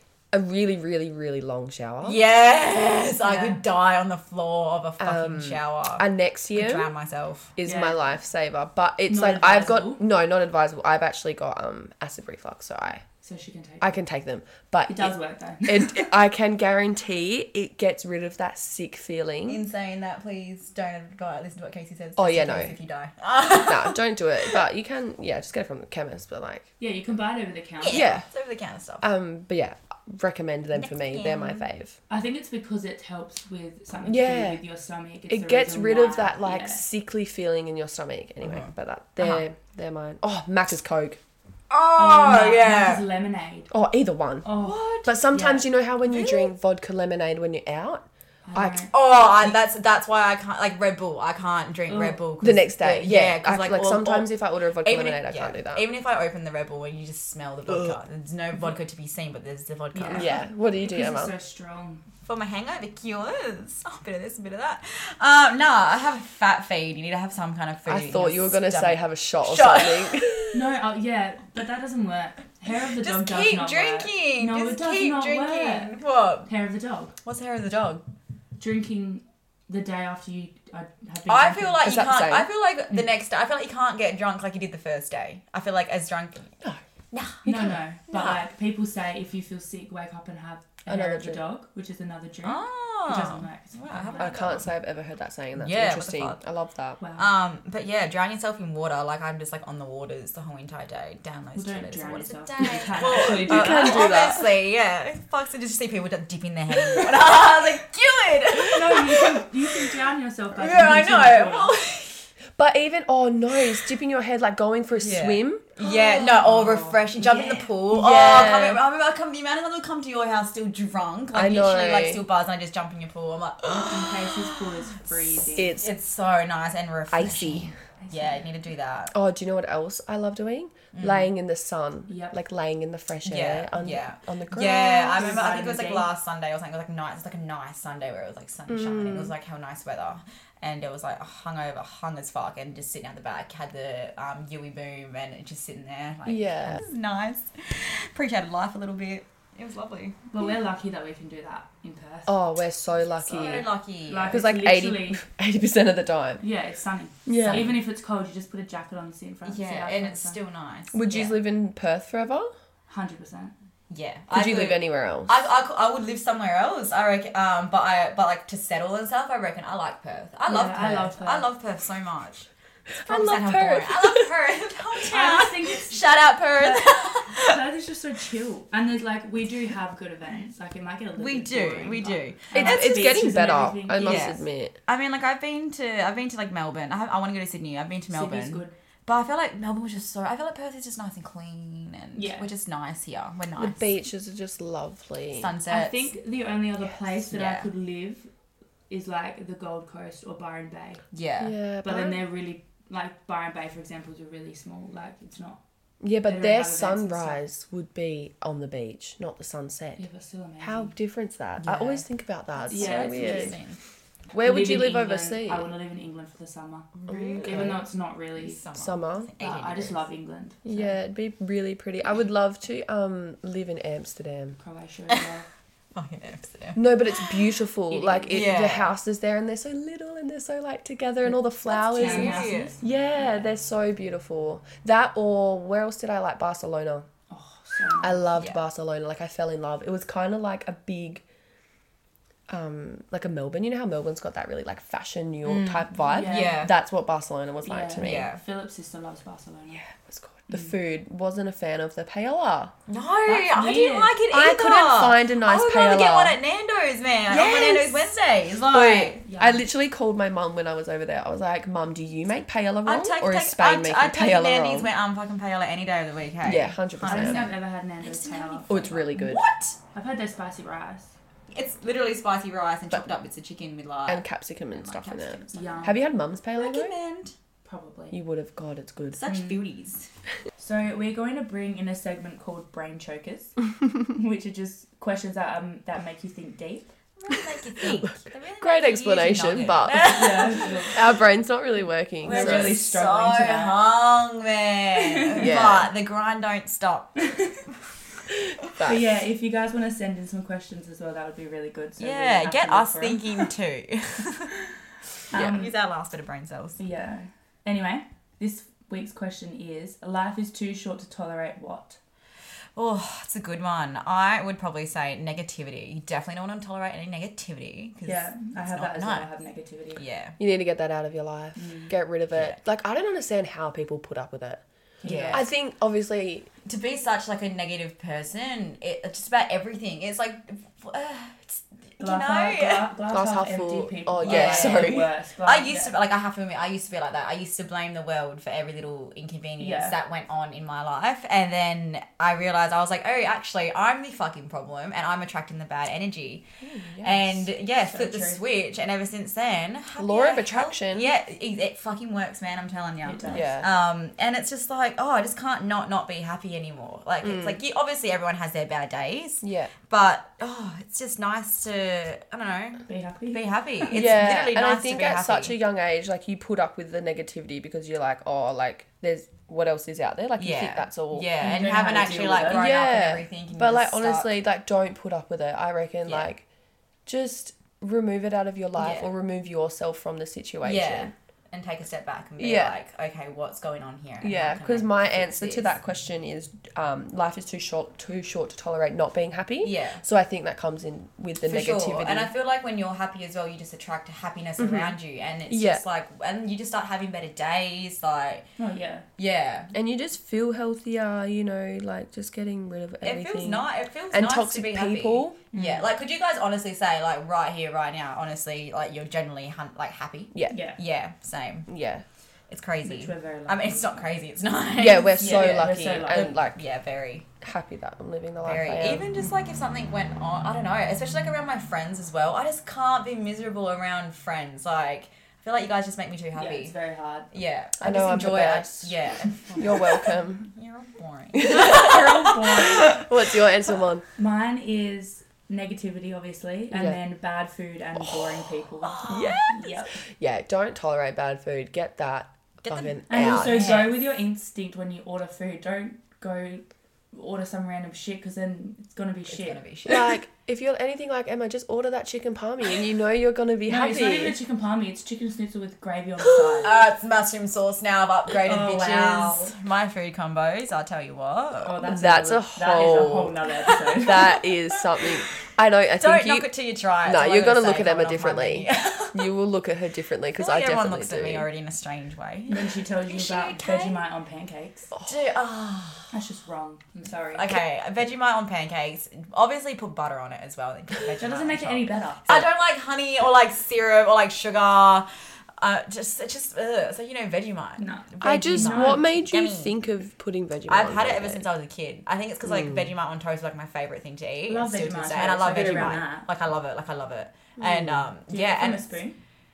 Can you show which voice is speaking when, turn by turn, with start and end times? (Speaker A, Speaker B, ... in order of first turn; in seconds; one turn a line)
Speaker A: 0.3-2.2
Speaker B: 2.0-7.5
Speaker C: 3.2-3.6
Speaker A: 5.0-6.9
Speaker A: 7.6-13.0
Speaker C: 7.6-8.0
Speaker C: 9.1-10.0
Speaker C: 13.2-14.0
Speaker A: 13.8-19.6
Speaker C: 14.9-16.1
Speaker B: 19.5-24.6
Speaker A: 22.2-22.7
Speaker A: 23.6-26.7
Speaker C: 26.8-28.1
Speaker B: 27.8-29.1
Speaker A: 27.9-28.2
Speaker A: 29.0-32.0
Speaker B: 30.7-31.6
Speaker C: 32.1-36.8
Speaker A: 34.0-34.6
Speaker A: 35.3-41.2
Speaker B: 38.4-39.4
Speaker B: 41.7-43.0
Speaker C: 42.0-43.7
Speaker A: 43.7-44.5
Speaker C: 44.4-45.6
Speaker B: 44.5-45.1
Speaker A: 45.0-48.9
Speaker B: 46.0-46.5
Speaker C: 48.4-48.9
Speaker B: 48.9-54.3
Speaker C: 51.9-52.2
Speaker A: 52.4-55.9
Speaker B: 54.8-60.4
Speaker A: 57.7-58.0
Speaker C: 59.9-62.0
Speaker A: 60.1-61.3
Speaker B: 62.2-70.3
Speaker A: 67.8-70.6
Speaker C: 70.5-77.1
Speaker B: 73.0-76.5
Speaker B: 77.2-78.0
Speaker C: 78.6-81.9
Speaker B: 81.3-86.5
Speaker A: 81.8-82.5
Speaker B: 87.1-87.5
Speaker A: 87.4-87.8
Speaker C: 87.4-94.6
Speaker B: 88.1-88.4
Speaker A: 90.9-91.4
Speaker B: 92.4-94.7
Speaker A: 94.2-97.0
Speaker B: 95.6-96.4
Speaker C: 97.0-97.3
Speaker B: 97.2-109.5
Speaker C: 101.5-104.3
Speaker A: 103.0-104.5
Speaker C: 108.6-111.7
Speaker B: 110.5-112.2
Speaker A: 112.6-115.7
Speaker B: 115.0-125.0
Speaker C: 115.8-117.7
Speaker A: 117.9-118.8
Speaker A: 121.3-122.2
Speaker C: 123.8-125.8
Speaker A: 125.5-125.9
Speaker B: 125.7-129.1
Speaker A: 127.1-127.7
Speaker C: 128.0-128.4
Speaker A: 129.1-135.4
Speaker B: 130.9-131.3
Speaker C: 132.1-132.4
Speaker B: 133.2-150.2
Speaker C: 135.1-136.1
Speaker A: 138.7-139.3
Speaker A: 146.2-146.8
Speaker C: 150.3-152.4
Speaker A: 152.3-153.7
Speaker C: 153.2-155.2
Speaker B: 153.3-154.4
Speaker A: 154.3-156.4
Speaker C: 156.4-160.4
Speaker A: 157.2-157.7
Speaker B: 157.4-157.8
Speaker B: 159.4-161.3
Speaker A: 160.9-162.5
Speaker C: 162.9-163.5
Speaker B: 163.9-172.5
Speaker A: 164.3-165.4
Speaker C: 170.5-171.5
Speaker A: 172.9-174.3
Speaker B: 173.0-177.6
Speaker C: 175.0-176.0
Speaker C: 176.6-184.3
Speaker B: 181.2-183.0
Speaker A: 182.5-184.8
Speaker B: 184.0-193.9
Speaker C: 188.1-188.7
Speaker C: 192.1-192.5
Speaker A: 193.6-195.5
Speaker B: 195.3-196.1
Speaker C: 195.7-198.3
Speaker B: 197.3-197.7
Speaker C: 198.9-201.0
Speaker B: 201.1-201.5
Speaker A: 201.4-202.2
Speaker C: 201.8-205.6
Speaker A: 206.0-210.0
Speaker C: 206.2-207.4
Speaker C: 210.0-210.9
Speaker A: 210.6-213.6
Speaker B: 211.6-212.1
Speaker C: 212.7-213.6
Speaker B: 212.7-213.8
Speaker A: 214.3-215.7
Speaker C: 214.4-218.6
Speaker A: 217.0-217.8
Speaker B: 217.1-217.8
Speaker B: 218.4-220.0
Speaker A: 218.7-219.3
Speaker C: 219.4-220.9
Speaker A: 220.6-224.6
Speaker C: 224.6-225.5
Speaker B: 225.9-227.4
Speaker A: 226.8-237.1
Speaker C: 227.9-228.5
Speaker B: 228.3-228.9
Speaker B: 231.7-232.8
Speaker C: 231.7-233.4
Speaker C: 237.3-238.3
Speaker A: 238.0-241.2
Speaker A: 242.5-248.3
Speaker B: 245.4-246.7
Speaker C: 246.0-246.6
Speaker C: 247.6-249.8
Speaker B: 248.0-248.4
Speaker A: 249.7-252.7
Speaker B: 252.9-259.2
Speaker C: 253.2-254.2
Speaker A: 254.3-256.4
Speaker A: 257.3-258.1
Speaker A: 258.7-264.9
Speaker C: 259.2-259.6
Speaker B: 262.8-269.8
Speaker A: 266.4-267.4
Speaker C: 267.1-269.1
Speaker A: 268.7-269.4
Speaker C: 269.9-271.1
Speaker B: 271.5-275.8
Speaker A: 274.1-276.9
Speaker C: 275.5-276.0
Speaker B: 276.6-277.3
Speaker C: 277.6-278.2
Speaker A: 278.1-279.3
Speaker B: 279.1-280.1
Speaker C: 279.2-279.6
Speaker C: 280.6-286.9
Speaker B: 287.2-291.0
Speaker A: 287.9-292.8
Speaker C: 289.9-291.0
Speaker C: 292.2-293.8
Speaker B: 292.2-297.4
Speaker C: 295.0-295.5
Speaker A: 295.3-295.9
Speaker C: 297.2-297.5
Speaker A: 298.7-299.1
Speaker C: 298.8-303.5
Speaker B: 302.0-304.5
Speaker C: 305.3-305.7
Speaker B: 305.4-306.8
Speaker C: 306.8-312.0
Speaker B: 312.7-319.3
Speaker C: 318.0-320.0
Speaker B: 320.0-320.4
Speaker A: 320.4-324.6
Speaker C: 321.6-321.9
Speaker B: 322.3-322.6
Speaker C: 325.0-325.5
Speaker B: 325.0-325.4
Speaker A: 325.3-326.5
Speaker B: 326.6-332.9
Speaker C: 332.0-335.9
Speaker A: 333.1-335.1
Speaker B: 334.2-346.4
Speaker C: 339.6-339.9
Speaker A: 346.6-347.4
Speaker B: 347.0-365.5
Speaker C: 347.9-348.4
Speaker A: 350.0-351.1
Speaker C: 353.0-353.5
Speaker A: 353.3-353.7
Speaker A: 357.2-357.6
Speaker A: 359.4-359.7
Speaker C: 362.9-364.0
Speaker A: 363.9-371.3
Speaker B: 370.4-374.3
Speaker C: 371.4-372.7
Speaker A: 372.5-376.4
Speaker A: 377.1-381.1
Speaker B: 378.8-379.1
Speaker B: 380.6-385.7
Speaker A: 382.4-382.7
Speaker A: 384.2-392.3
Speaker B: 389.6-390.0
Speaker B: 391.4-398.5
Speaker A: 394.6-394.9
Speaker A: 395.5-395.8
Speaker C: 398.6-399.1
Speaker B: 399.2-399.7
Speaker A: 399.7-405.4
Speaker B: 403.0-411.7
Speaker C: 405.5-405.9
Speaker C: 410.5-410.8
Speaker A: 411.7-412.0
Speaker B: 412.5-417.3
Speaker C: 412.8-414.1
Speaker A: 414.8-416.6
Speaker C: 415.2-416.3
Speaker A: 417.4-419.1
Speaker B: 418.4-426.7
Speaker C: 426.3-427.3
Speaker B: 427.3-433.1
Speaker A: 427.8-428.9
Speaker A: 429.5-430.5
Speaker A: 431.3-434.0
Speaker C: 431.5-432.9
Speaker C: 434.2-439.9
Speaker A: 436.7-437.0
Speaker B: 438.8-439.7
Speaker A: 439.1-439.6
Speaker A: 440.2-443.6
Speaker B: 442.6-444.0
Speaker C: 443.1-449.6
Speaker B: 449.3-450.1
Speaker A: 449.9-454.4
Speaker C: 453.7-456.8
Speaker B: 456.6-461.8
Speaker C: 458.4-459.5
Speaker C: 461.6-464.4
Speaker A: 461.8-463.4
Speaker B: 462.8-465.1
Speaker A: 463.9-466.5
Speaker B: 466.0-469.3
Speaker A: 467.0-471.5
Speaker B: 470.4-474.1
Speaker C: 472.5-474.9
Speaker B: 475.0-476.1
Speaker C: 476.1-477.6
Speaker B: 477.3-485.1
Speaker C: 481.2-482.5
Speaker B: 485.6-489.7
Speaker C: 487.8-489.2
Speaker A: 488.2-491.4
Speaker B: 490.7-499.0
Speaker A: 492.5-492.8
Speaker C: 494.5-496.3
Speaker A: 495.4-496.1
Speaker A: 497.6-498.1
Speaker C: 498.3-499.2